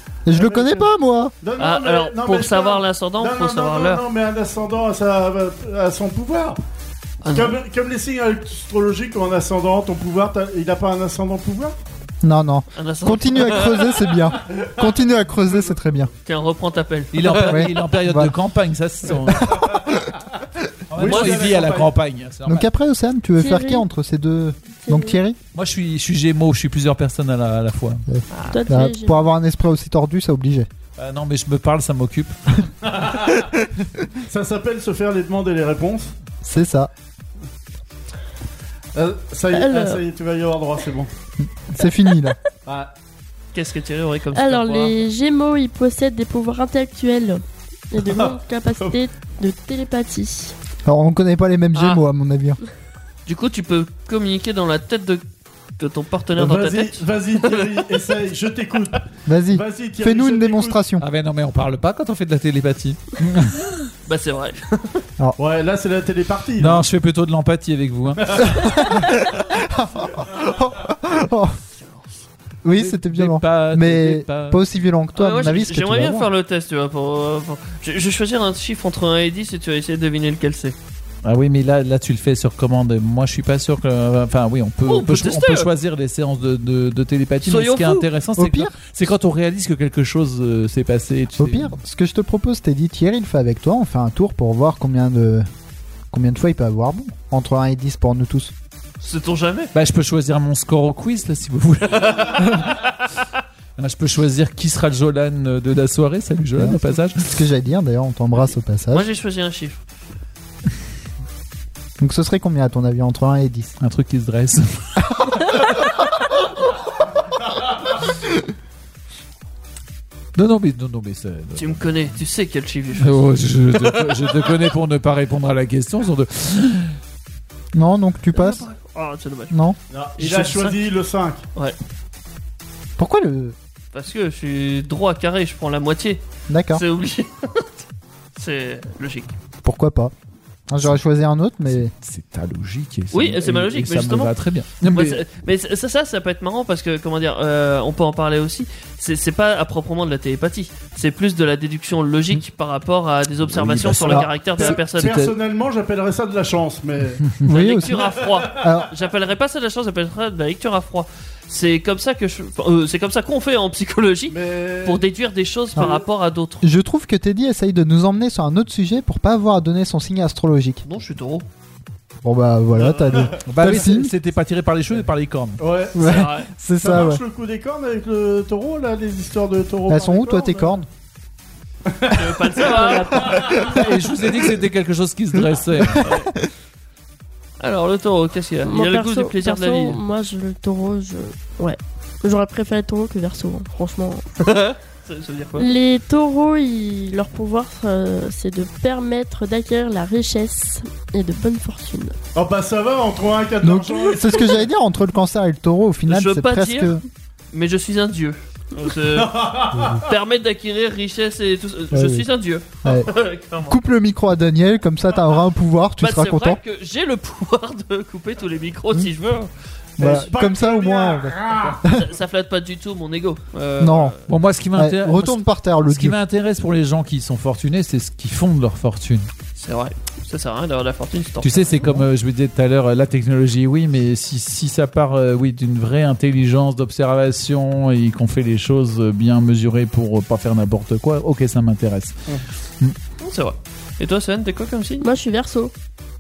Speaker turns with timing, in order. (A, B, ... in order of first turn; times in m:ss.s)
0:00.3-0:01.3 A
0:00.3-0:00.9 B
0:01.4-0:06.6 B
0:01.6-0:04.0 C
0:07.2-0:07.6 C
0:07.3-0:11.8 B
0:12.2-0:16.1 A
0:12.7-0:14.1 C
0:14.4-0:14.9 B
0:15.5-0:15.7 B
0:16.3-0:17.6 C
0:17.1-0:19.7 D
0:17.2-0:18.3 A
0:19.3-0:19.9 A
0:20.9-0:22.7 D
0:21.0-0:21.9 B
0:21.0-0:21.7 C
0:22.4-0:25.4 A
0:23.4-0:23.8 E
0:24.8-0:25.2 E
0:25.5-0:28.0 D
0:28.1-0:30.7 A
0:28.3-0:28.6 C
0:28.5-0:29.2 E
0:31.0-0:32.6 D
0:32.8-0:33.5 B
0:34.2-0:36.1 B
0:36.4-0:36.9 A
0:39.0-0:41.1 B
0:39.5-0:40.0 E
0:41.4-0:42.4 A
0:42.6-0:42.9 B
0:43.5-0:45.0 C
0:44.3-0:50.5 E
0:48.0-0:49.0 B
0:50.8-0:52.6 A
0:51.8-0:52.0 C
0:53.3-0:55.2 C
0:55.8-0:57.8 C
0:56.4-1:00.8 B
0:59.3-1:01.1 A
1:01.0-1:03.6 D
1:04.1-1:05.0 C
1:05.4-1:06.8 B
1:06.6-1:08.4 D
1:08.2-1:08.5 B
1:08.4-1:11.6 A
1:12.6-1:16.3 A
1:12.8-1:14.6 D
1:15.2-1:20.8 C
1:21.2-1:31.8 D
1:24.9-1:25.7 C
1:27.4-1:28.1 C
1:28.4-1:28.7 A
1:31.4-1:35.5 A
1:36.1-1:38.5 A
1:39.0-1:39.7 C
1:39.7-1:43.0 D
1:42.0-1:42.9 C
1:43.8-1:47.4 D
1:46.6-1:49.1 A
1:48.9-1:49.8 C
1:52.0-1:53.8 A
1:53.8-1:55.4 D
2:00.4-2:01.9 D
2:01.6-2:04.6 C
2:03.0-2:07.0 D
2:07.8-2:08.7 A
2:08.3-2:09.6 C
2:09.5-2:09.8 A
2:09.9-2:11.4 B
2:10.2-2:10.8 C
2:13.0-2:13.6 A
2:13.9-2:17.8 C
2:16.5-2:16.8 A
2:18.4-2:19.3 C
2:19.6-2:20.1 A
2:20.7-2:21.9 A
2:21.8-2:25.2 D
2:23.1-2:24.3 C
2:24.8-2:35.2 C
2:33.5-2:35.3 D
2:34.6-2:37.3 B
2:37.4-2:38.9 A
2:37.5-2:46.7 C
2:38.3-2:38.6 B
2:44.3-2:45.0 B
2:45.8-2:46.0 B
2:46.6-2:50.8 A
2:50.8-2:51.5 C
2:52.2-2:54.1 A
2:52.8-2:53.8 B
2:53.5-2:55.6 D
2:55.6-2:56.2 B
2:55.9-2:57.2 A
2:56.0-2:56.5 C
2:56.8-3:00.8 B
2:59.9-3:00.9 A
3:01.9-3:03.8 B
3:02.1-3:03.5 C
3:02.6-3:03.8 E
3:03.7-3:06.0 D
3:05.6-3:06.4 A
3:06.0-3:06.3 C
3:07.6-3:10.0 C
3:08.6-3:14.2 E
3:14.4-3:15.7 C
3:15.6-3:22.2 E
3:22.4-3:24.7 B
3:23.6-3:27.0 A
3:26.1-3:27.0 C
3:27.5-3:33.8 C
3:29.1-3:30.1 B
3:29.7-3:30.0 A
3:31.9-3:32.3 A
3:32.8-3:36.6 A
3:36.0-3:39.5 C
3:40.0-3:41.8 B
3:40.0-3:42.1 A
3:41.8-3:44.2 C
3:43.8-3:44.2 A
3:44.3-3:49.3 D
3:44.8-3:46.2 A
3:49.6-3:51.8 C
3:51.4-4:02.2 D
4:03.2-4:05.1 C
4:05.0-4:05.7 E